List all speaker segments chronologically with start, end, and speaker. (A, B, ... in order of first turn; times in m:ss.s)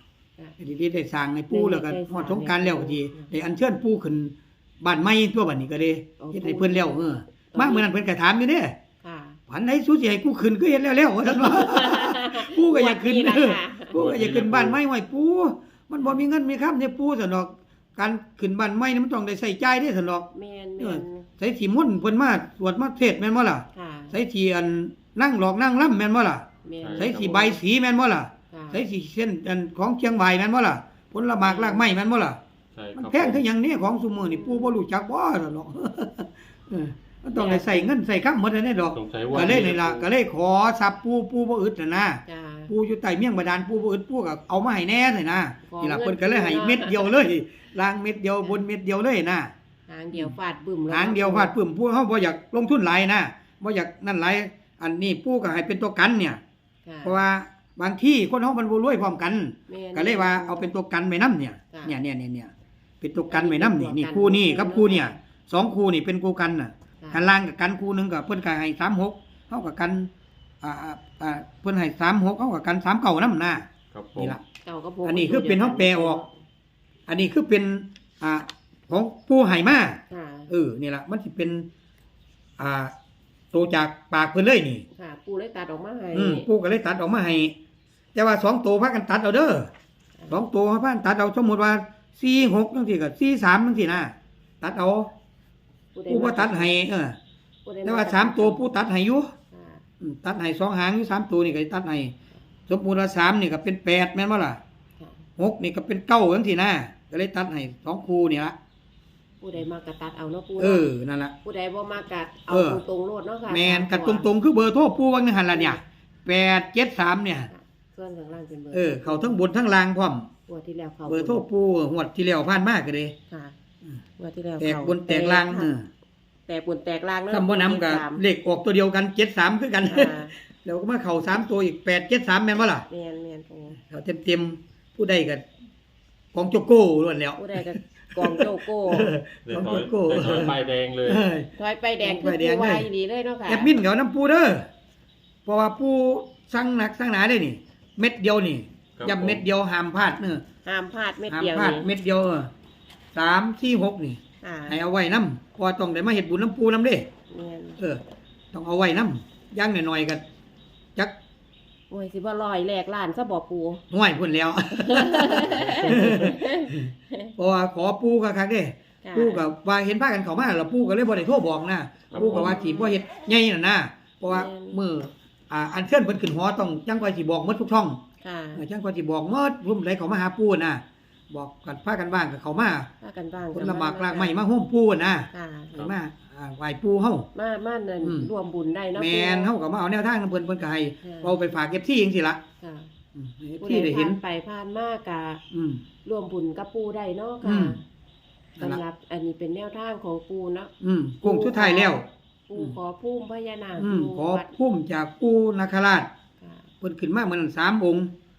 0:00.6-0:08.8 A
0:01.5-0:03.3 B
0:06.2-0:07.9 B
0:09.0-0:09.4 B
0:09.5-0:20.3 A
0:11.4-0:14.0 B
0:13.9-0:14.8 C
0:20.3-0:21.3 B
0:20.8-0:26.5 A
0:23.7-0:24.2 B
0:26.6-0:27.4 B
0:26.8-0:27.6 C
0:27.0-0:32.4 A
0:28.5-0:28.8 B
0:31.4-0:31.8 B
0:32.7-0:33.4 C
0:33.0-0:49.5 A
0:34.2-0:34.8 B
0:37.3-0:38.0 B
0:38.9-0:40.1 C
0:42.3-0:42.7 B
0:45.7-0:47.2 B
0:49.9-0:51.5 B
0:50.9-0:56.4 A
0:56.8-0:57.2 B
0:57.0-1:10.1 A
0:59.7-1:00.7 B
1:01.7-1:02.0 B
1:03.3-1:05.2 B
1:07.0-1:07.3 B
1:10.6-1:14.4 A
1:13.9-1:14.4 C
1:14.6-1:16.4 B
1:15.0-1:16.2 A
1:17.1-1:21.7 A
1:20.1-1:20.5 B
1:22.6-1:22.9 A
1:23.5-1:24.8 A
1:24.9-1:26.5 B
1:26.1-1:27.6 A
1:28.2-1:29.7 A
1:30.3-1:35.1 A
1:35.9-1:36.8 B
1:36.1-1:37.2 A
1:37.6-1:38.7 B
1:37.8-1:39.3 A
1:39.5-1:39.8 B
1:40.0-1:42.1 A
1:42.7-1:44.6 A
1:45.4-1:48.6 A
1:49.4-1:50.9 B
1:50.6-1:51.3 A
1:51.4-1:54.3 B
1:52.5-1:52.8 A
1:53.5-1:57.5 A
1:55.5-1:55.8 B
1:57.5-1:59.4 B
1:58.7-2:00.3 A
2:00.5-2:01.4 B
2:01.1-2:03.2 A
2:03.3-2:03.6 B
2:04.2-2:05.7 B
2:04.6-2:05.9 A
2:06.5-2:08.2 B
2:07.3-2:12.9 A
2:09.9-2:10.4 B
2:12.9-2:13.8 B
2:13.8-2:15.4 A
2:16.3-2:21.5 A
2:17.4-2:19.2 B
2:19.5-2:21.2 C
2:21.6-2:23.8 B
2:22.0-2:22.9 A
2:23.5-2:24.7 A
2:25.5-2:30.4 A
2:29.0-2:29.4 C
2:30.6-2:31.9 B
2:31.3-2:32.5 A
2:33.1-2:37.1 A
2:34.4-2:34.8 B
2:37.3-2:37.8 B
2:38.5-2:40.2 A
2:41.9-2:43.8 B
2:43.9-2:58.0 A
2:44.8-2:47.3 B
2:45.8-2:46.2 C
2:49.0-2:49.5 B
2:52.1-2:52.7 C
2:52.2-2:53.0 B
2:54.3-2:54.8 B
2:58.2-2:58.6 B
2:58.6-3:02.9 A
3:03.0-3:04.4 B
3:03.5-3:07.3 A
3:05.3-3:05.8 B
3:07.3-3:09.5 B
3:08.0-3:08.3 A
3:09.0-3:12.4 A
3:11.0-3:11.4 B
3:12.6-3:12.9 B
3:13.2-3:14.2 A
3:13.6-3:15.4 B
3:15.5-3:15.8 A
3:16.0-3:17.8 B
3:17.4-3:17.8 A
3:18.6-3:20.7 B
3:20.8-3:22.8 A
3:21.2-3:24.5 B
3:23.8-3:26.1 A
3:26.4-3:26.7 B
3:26.8-3:28.1 A